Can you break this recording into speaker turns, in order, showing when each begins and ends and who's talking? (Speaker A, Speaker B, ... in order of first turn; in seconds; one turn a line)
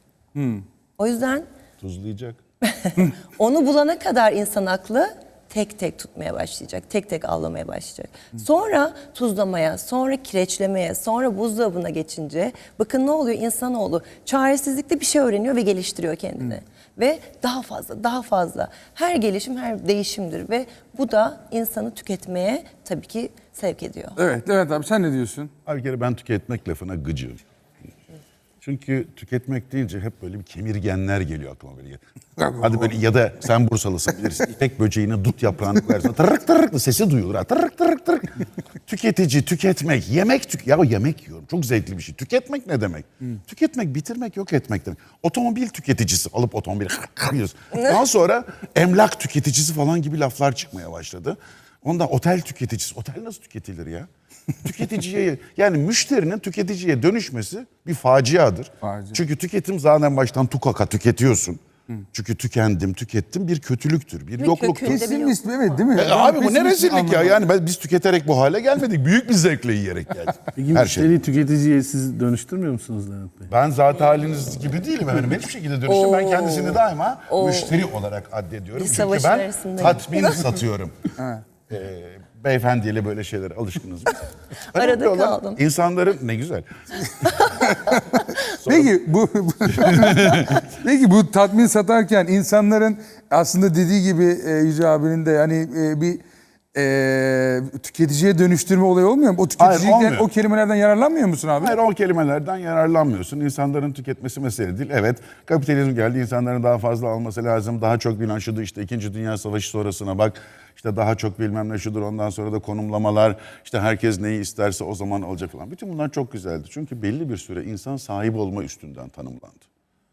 Speaker A: 0.3-0.6
Speaker B: 1.0-1.5
Speaker C: 1.8-2.4
Speaker B: 2.6-24.2
Speaker A: 24.2-25.5
Speaker C: 25.7-27.4
Speaker C: 28.6-32.0
Speaker A: 32.4-32.9
Speaker C: 32.6-54.1
Speaker C: 54.6-61.6
Speaker A: 58.8-59.2
Speaker C: 62.1-65.0
Speaker B: 64.4-65.5
Speaker A: 64.8-67.4
Speaker C: 65.9-71.2
Speaker D: 70.6-73.5
Speaker C: 73.5-81.1
Speaker B: 75.9-77.8
Speaker B: 78.8-80.5
Speaker C: 81.7-86.7
Speaker B: 84.6-85.6
Speaker B: 87.2-87.7
Speaker A: 87.6-96.2
Speaker C: 88.6-88.9
Speaker C: 89.8-90.6
Speaker A: 96.7-101.8
Speaker C: 99.6-100.3
Speaker C: 101.6-119.7